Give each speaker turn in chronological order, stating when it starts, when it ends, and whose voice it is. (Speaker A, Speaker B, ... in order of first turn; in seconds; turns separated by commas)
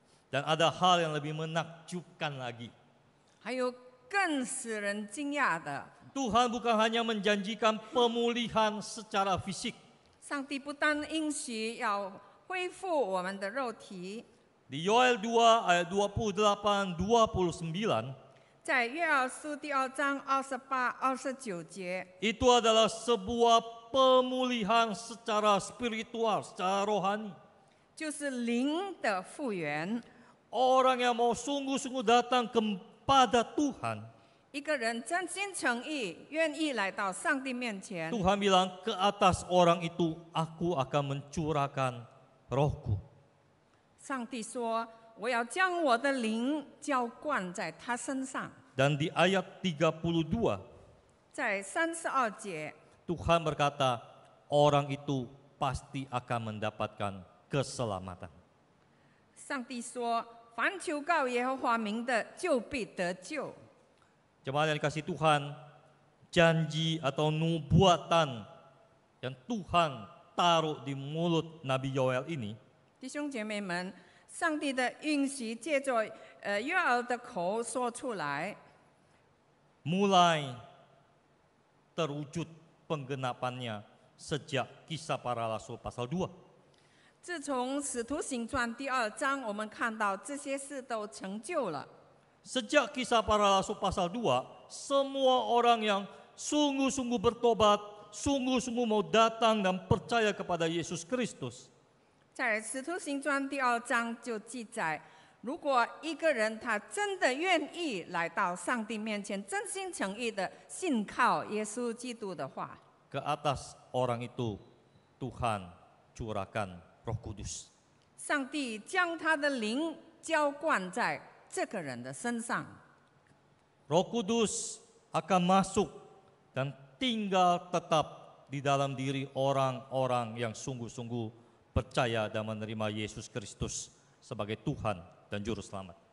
Speaker A: 0.3-2.7, Speaker B: 3.4-5.9, Speaker A: 6.1-9.8, Speaker B: 10.2-14.2, Speaker A: 14.7-18.1, Speaker B: 18.6-22.1, Speaker A: 22.2-27.4, Speaker B: 27.9-30.0, Speaker A: 30.5-34.1, Speaker B: 34.5-38.2, Speaker A: 38.1-43.0, Speaker B: 44.0-48.6, Speaker A: 48.7-50.6, Speaker B: 51.3-52.7, Speaker A: 53.1-58.4, Speaker B: 59.4-63.6, Speaker A: 64.4-65.6, Speaker A: 66.3-68.5, Speaker A: 69.2-72.6, Speaker B: 73.0-78.6, Speaker A: 79.8-80.6, Speaker A: 82.0-86.3, Speaker B: 87.2-91.9, Speaker A: 92.4-101.7, Speaker B: 102.3-112.8, Speaker A: 113.1-114.6, Speaker A: 115.2-117.7, Speaker B: 118.2-122.8, Speaker A: 123.9-126.0, Speaker A: 126.5-136.0